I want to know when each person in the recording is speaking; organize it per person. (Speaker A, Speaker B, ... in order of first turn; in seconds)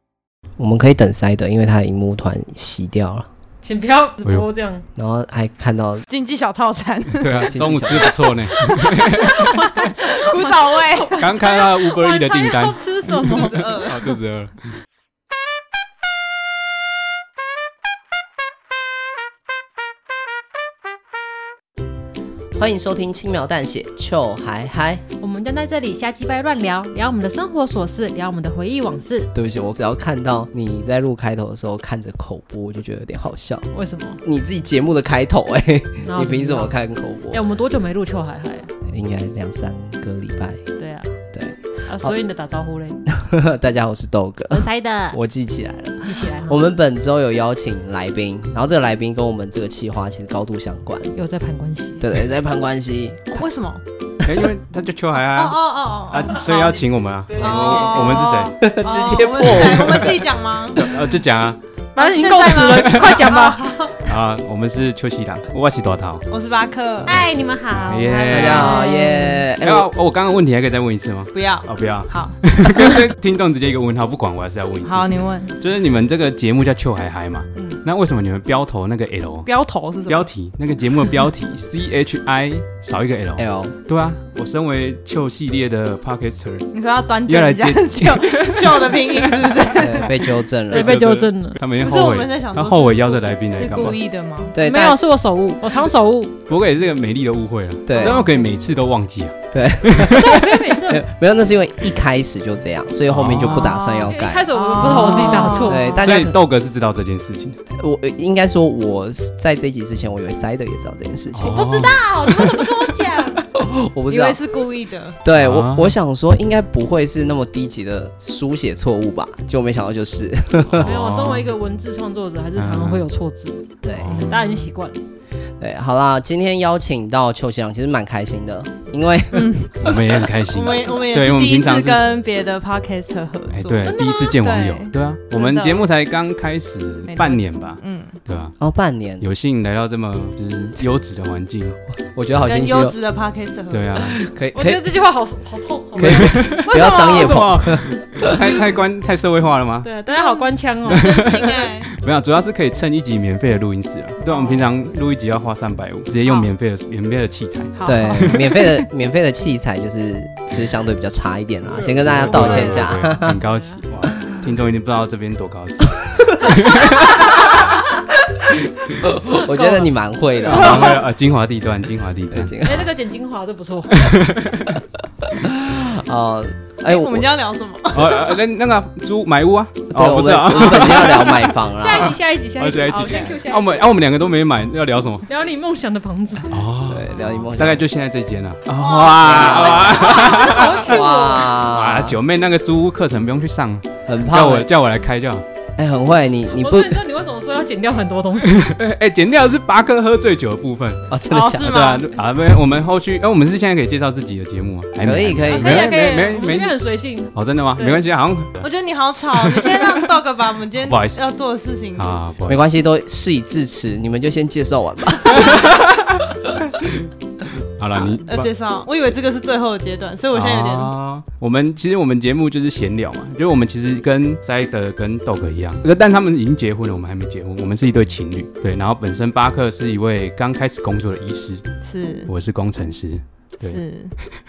Speaker A: 0.6-3.3, 5.0-6.0, 7.5-8.2, 22.6-25.0, 29.3-33.7, 34.2-37.4, 38.8-40.6, 41.3-42.1, 43.1-51.1, 52.0-53.5, 57.4-57.8, 58.6-60.2, 68.3-69.9, 83.4-83.8, 89.7-91.0, 94.5-95.0, 97.8-98.2, 99.5-104.5, 105.7-106.4, 107.7-112.0, 113.5-114.4, 115.2-120.9, 123.8-124.2, 125.6-129.9, 138.6-139.3, 142.1-142.9, 144.3-144.9, 146.0-148.3, 157.8-163.4, 166.5-167.4, 169.0-171.0, 172.3-172.9, 175.3-177.3, 179.9-182.2, 186.9-187.8, 189.2-192.2, 194.1-194.7, 195.8-197.0, 201.1-201.8, 205.0-205.9, 212.4-215.7
Speaker B: 3.6-4.8, 8.8-13.7, 25.2-29.3, 33.7-34.2, 36.0-36.7, 37.3-38.7, 40.8-41.1, 41.9-43.0, 44.5-45.2, 46.0-46.7, 51.1-52.0, 62.0-63.6, 67.0-69.4, 90.7-91.6, 94.6-96.3, 100.1-101.0, 104.0-106.0, 111.5-113.4, 120.8-123.7, 124.3-125.0, 144.5-147.1, 149.8-151.4, 154.3-154.6, 163.2-163.8, 172.6-174.2, 181.7-183.9, 185.3-186.5, 190.0-191.5, 196.5-198.7, 205.5-208.0
Speaker C: 6.1-7.9, 9.9-11.2, 13.4-14.1, 53.3-53.8, 55.3-56.8, 57.4-60.9, 62.0-64.0, 66.3-67.2, 71.3-72.3, 74.8-75.5, 79.5-80.3, 86.7-90.2, 91.8-94.5, 104.5-106.0, 114.1-115.2, 124.0-124.5, 129.3-129.9, 130.5-135.9, 137.1-138.2, 142.4-144.2, 146.7-147.3, 150.1-151.9, 157.8-158.6, 176.8-178.4, 182.9-183.4, 188.8-190.5, 201.3-202.1, 208.6-212.1, 217.9-220.9, 231.8-232.3, 233.7-234.1
Speaker D: 7.2-9.7, 11.2-13.3, 13.8-14.6, 54.2-58.6, 59.4-60.1, 60.8-61.6, 62.7-63.3, 64.0-66.2, 67.7-68.8, 69.6-79.5, 80.1-86.7, 87.2-89.7, 90.7-94.0, 96.5-100.3, 103.1-103.9, 104.8-107.6, 111.3-112.0, 115.3-115.9, 120.7-121.5, 122.5-123.0, 124.0-124.3, 129.8-132.1, 133.5-138.5, 139.2-141.8, 143.7-144.2, 146.0-149.9, 150.9-158.7, 161.8-167.5, 170.5-172.5, 173.9-174.8, 177.9-185.2, 186.5-190.9, 191.7-195.4, 198.4-201.1, 201.6-206.7, 207.3-208.6, 209.3-210.1, 210.8-211.2, 211.9-212.7, 215.3-216.2, 217.8-218.5, 220.3-231.6, 232.3-233.8